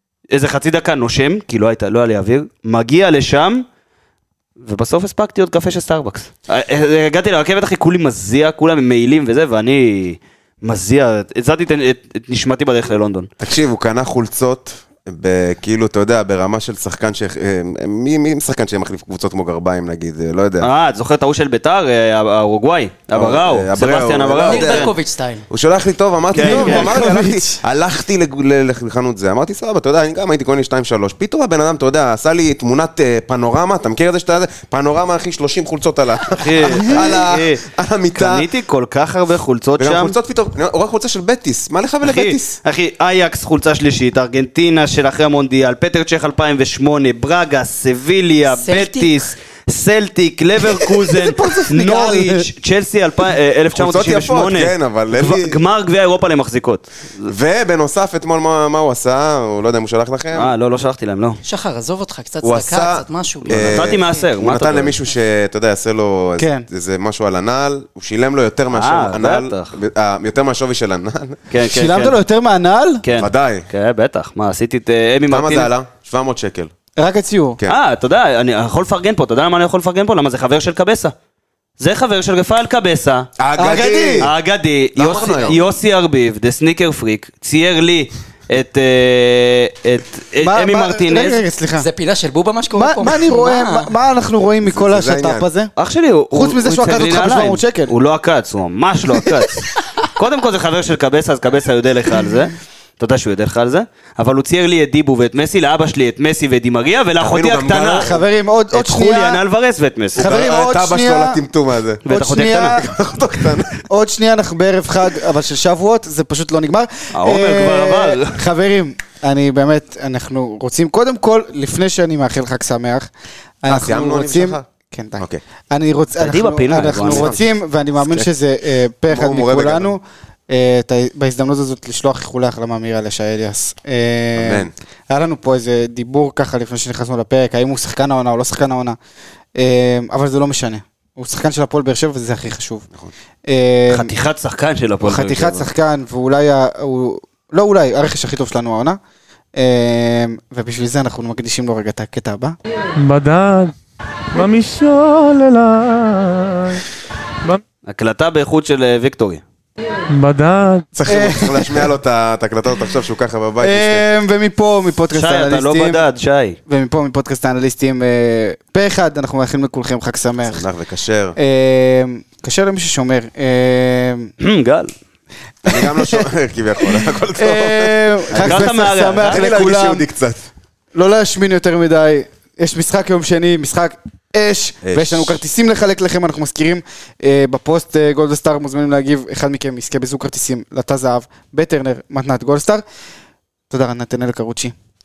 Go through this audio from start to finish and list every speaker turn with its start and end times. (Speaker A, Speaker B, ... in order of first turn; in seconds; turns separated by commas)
Speaker A: 0.3-3.6, Speaker A: 4.6-13.3, Speaker B: 13.4-20.7, Speaker A: 20.6-24.9, Speaker B: 23.1-24.9, Speaker C: 24.4-25.5, Speaker B: 25.5-38.5, Speaker A: 26.3-27.0, Speaker D: 26.3-27.6, Speaker A: 36.3-40.2, Speaker B: 39.8-42.5, Speaker A: 42.0-57.3, Speaker C: 48.5-49.2, Speaker D: 50.7-52.5, Speaker B: 53.7-55.5, Speaker B: 57.3-60.5, Speaker A: 60.3-61.4, Speaker C: 61.4-63.9, Speaker B: 62.4-71.4, Speaker A: 63.5-64.9, Speaker D: 66.4-66.7, Speaker A: 68.7-69.7, Speaker A: 71.5-72.2, Speaker D: 71.6-73.0, Speaker A: 73.0-75.7, Speaker B: 73.1-73.7, Speaker B: 75.3-76.7, Speaker D: 77.0-77.6, Speaker A: 77.7-81.1, Speaker A: 81.8-83.3, Speaker B: 83.4-84.3, Speaker D: 83.5-84.3, Speaker A: 84.2-91.4, Speaker B: 85.0-85.6, Speaker D: 90.4-91.9, Speaker C: 91.8-93.9, Speaker D: 92.7-95.7, Speaker B: 94.7-95.5, Speaker A: 95.8-108.1, Speaker D: 96.3-97.9, Speaker B: 107.2-108.2, Speaker D: 108.0-109.4, Speaker A: 108.7-110.3, Speaker D: 110.2-111.4, Speaker B: 110.2-112.0, Speaker A: 112.0-112.8, Speaker D: 112.1-112.9, Speaker B: 112.7-113.8, Speaker D: 113.8-123.1, Speaker A: 117.1-118.4, Speaker D: 123.6-139.0, Speaker B: 123.7-124.6, Speaker A: 126.2-127.3, Speaker B: 126.8-127.4, Speaker B: 128.0-128.3, Speaker B: 129.1-129.9, Speaker B: 134.3-134.7, Speaker D: 139.6-142.9, Speaker D: 143.5-144.1, Speaker A: 143.9-145.7, Speaker D: 145.0-149.0, Speaker D: 149.6-152.6, Speaker E: 152.9-153.7, Speaker E: 154.3-156.8, Speaker A: 157.9-159.4, Speaker E: 160.1-160.9, Speaker B: 160.9-164.0, Speaker D: 161.1-161.9, Speaker D: 163.6-166.0, Speaker A: 165.1-166.6, Speaker D: 166.7-170.7, Speaker B: 170.5-171.3, Speaker D: 171.3-174.3, Speaker A: 174.4-174.9, Speaker D: 175.6-176.3, Speaker B: 175.7-180.4, Speaker D: 176.8-180.1, Speaker A: 178.3-179.5, Speaker D: 180.9-192.8, Speaker B: 184.8-185.4, Speaker D: 193.7-194.7